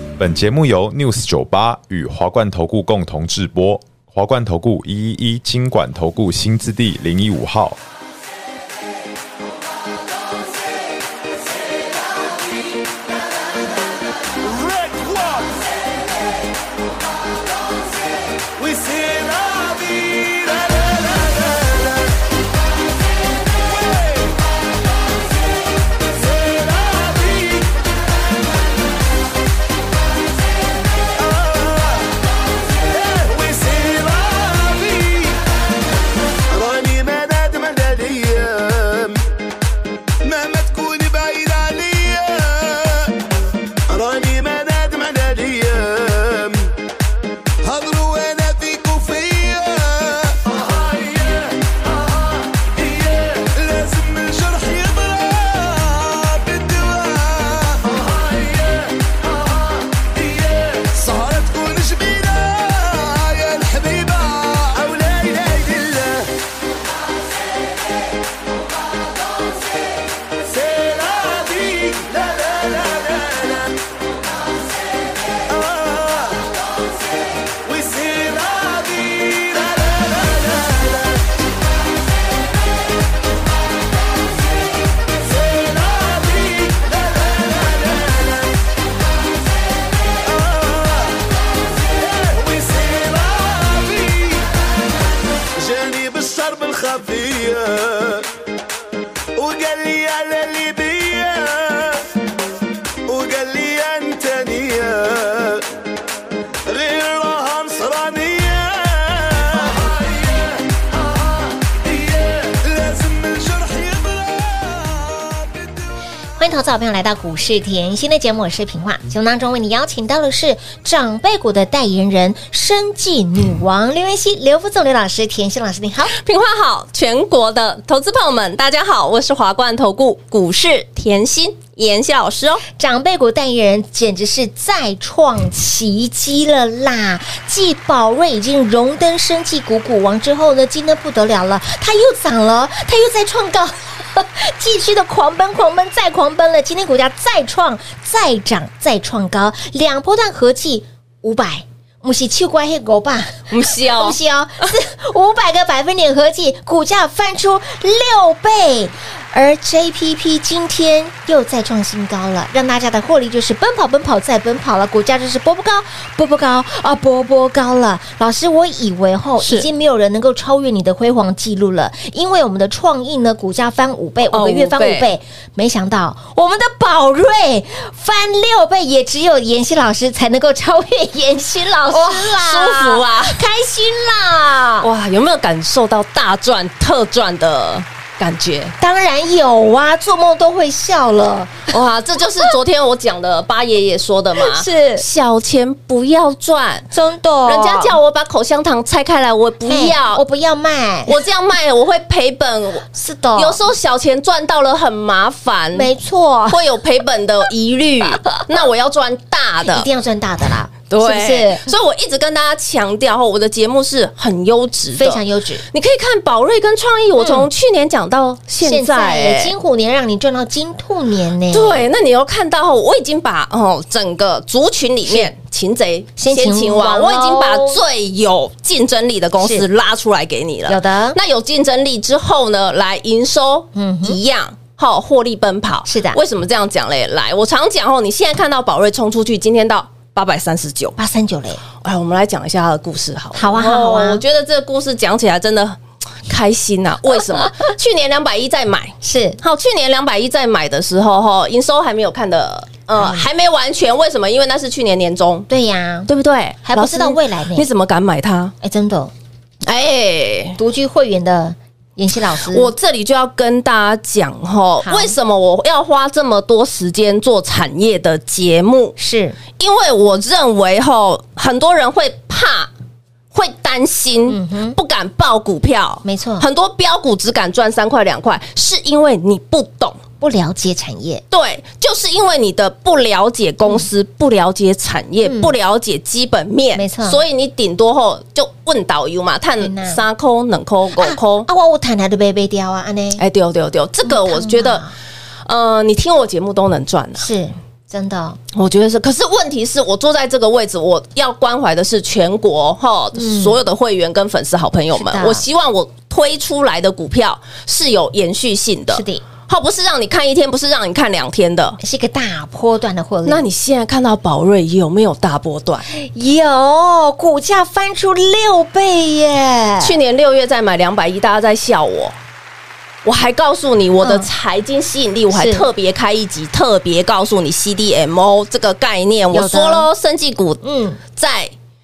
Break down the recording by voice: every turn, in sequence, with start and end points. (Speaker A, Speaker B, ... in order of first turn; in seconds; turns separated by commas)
Speaker A: 0.2-7.8, Speaker B: 14.4-15.6, Speaker B: 18.6-22.2, Speaker B: 23.5-24.4, Speaker B: 26.1-27.8, Speaker B: 31.1-32.2, Speaker B: 32.8-35.4, Speaker B: 36.5-39.2, Speaker B: 40.2-43.1, Speaker B: 43.9-46.7, Speaker B: 47.6-66.4, Speaker B: 70.4-73.8, Speaker B: 75.5-76.5, Speaker B: 77.7-81.3, Speaker B: 85.1-88.6, Speaker B: 90.2-94.5, Speaker B: 95.5-98.3, Speaker B: 99.4-102.1, Speaker B: 103.1-105.7, Speaker B: 106.7-115.8, Speaker C: 116.4-126.2, Speaker D: 126.1-132.7, Speaker C: 132.7-184.9, Speaker D: 153.5-154.2, Speaker D: 169.4-169.7, Speaker D: 174.3-175.1, Speaker D: 181.9-183.4, Speaker D: 184.8-188.7, Speaker C: 188.8-191.7, Speaker D: 191.7-196.9, Speaker C: 194.4-195.1, Speaker C: 196.9-198.0, Speaker D: 197.4-200.2, Speaker C: 199.7-201.2, Speaker D: 201.1-205.9, Speaker C: 202.9-203.6, Speaker C: 205.7-206.6, Speaker D: 206.5-209.9, Speaker C: 209.6-211.7, Speaker D: 210.9-219.5, Speaker C: 214.9-215.6, Speaker C: 217.2-217.5, Speaker C: 218.6-221.9, Speaker D: 221.5-241.0, Speaker C: 226.2-227.8, Speaker C: 229.4-229.7, Speaker C: 230.7-231.2, Speaker C: 233.8-234.2, Speaker C: 235.9-236.2, Speaker C: 241.0-241.6, Speaker D: 241.8-255.5, Speaker C: 243.3-244.2, Speaker C: 249.0-249.4, Speaker C: 253.0-253.3, Speaker C: 255.5-256.1, Speaker D: 256.1-258.5, Speaker C: 256.6-257.7, Speaker C: 258.6-259.1, Speaker D: 259.7-260.6, Speaker C: 260.6-262.7, Speaker D: 262.5-268.9, Speaker C: 264.8-265.1, Speaker C: 269.0-269.4, Speaker D: 269.6-272.7, Speaker D: 273.3-280.0, Speaker C: 274.3-274.8, Speaker C: 276.1-276.5, Speaker C: 280.2-281.2, Speaker D: 281.3-291.5, Speaker C: 285.2-285.5, Speaker C: 286.8-287.2, Speaker C: 289.6-290.0, Speaker C: 291.0-293.2, Speaker D: 293.2-294.8, Speaker C: 294.0-294.9, Speaker D: 295.5-297.3, Speaker C: 297.2-298.4, Speaker D: 298.5-311.8, Speaker C: 303.1-303.6, Speaker C: 305.0-305.4, Speaker C: 308.9-309.2, Speaker C: 311.8-313.5, Speaker D: 313.2-315.9, Speaker C: 315.9-320.0, Speaker D: 319.8-322.1, Speaker D: 323.1-331.5, Speaker C: 324.0-324.3, Speaker C: 325.3-325.7, Speaker C: 329.3-329.9, Speaker C: 330.6-331.0